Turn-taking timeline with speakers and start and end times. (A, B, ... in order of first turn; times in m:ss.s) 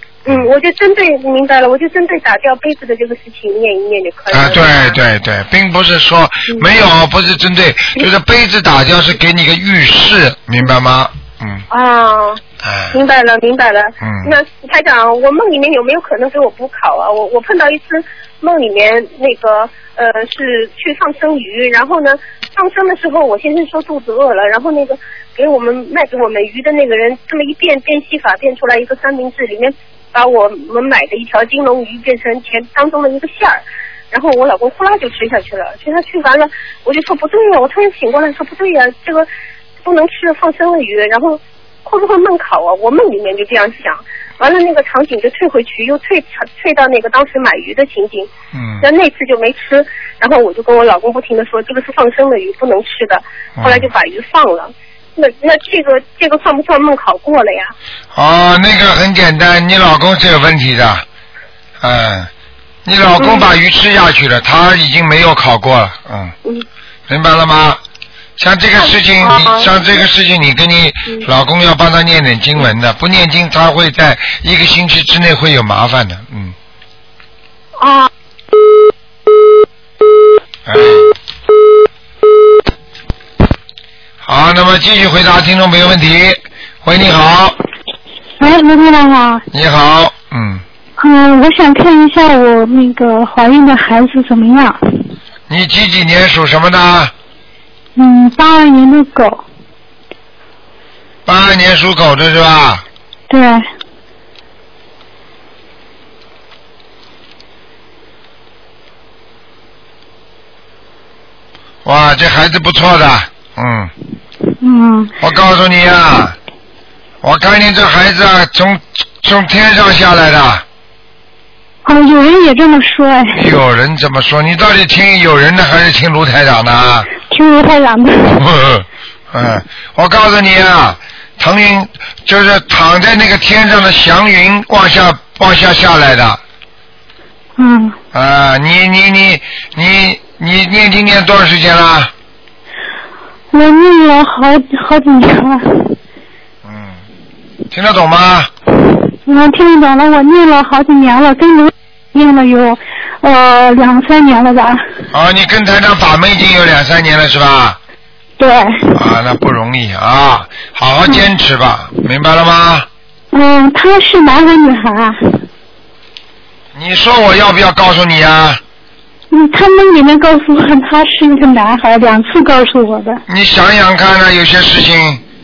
0:00.2-0:05.0 A
0:04.3-0:11.6 B
0:11.7-0:12.4 A
0:12.6-0:13.0 B
0:12.9-0:39.3 A
0:14.0-0:14.3 B
0:39.8-0:48.3 A
0:48.5-0:48.8 B
0:48.8-0:57.7 A
0:53.6-0:53.9 B
0:58.1-1:01.0 B
1:01.8-1:02.3 B
1:02.8-1:06.3 B
1:03.2-1:03.5 A
1:07.1-1:07.8 B
1:08.4-1:16.5 B
1:08.8-1:09.7 A
1:17.8-1:18.1 A
1:20.6-1:21.1 B
1:24.2-1:27.6 B
1:28.4-1:29.4 C
1:29.5-1:30.6 B
1:31.0-1:34.8 C
1:35.5-1:37.1 B
1:38.0-1:39.4 C
1:41.2-1:42.8 B
1:43.3-1:43.6 C
1:51.8-1:53.9 B
1:54.6-1:55.1 C
1:55.2-1:56.4 B
1:57.2-2:00.6 B
2:01.8-2:03.4 C
2:03.3-2:07.1 B
2:07.3-2:08.4 C
2:08.3-2:16.4 B
2:17.6-2:18.0 C
2:18.1-2:22.1 B
2:23.5-2:26.0 C
2:26.6-2:27.0 B
2:27.7-2:28.5 B
2:29.2-2:34.8 C
2:35.1-2:37.8 B
2:38.4-2:39.0 C
2:38.9-2:42.9 B
2:43.3-2:45.2 C
2:46.7-2:48.6 B
2:49.3-2:53.2 C
2:53.3-2:55.2 B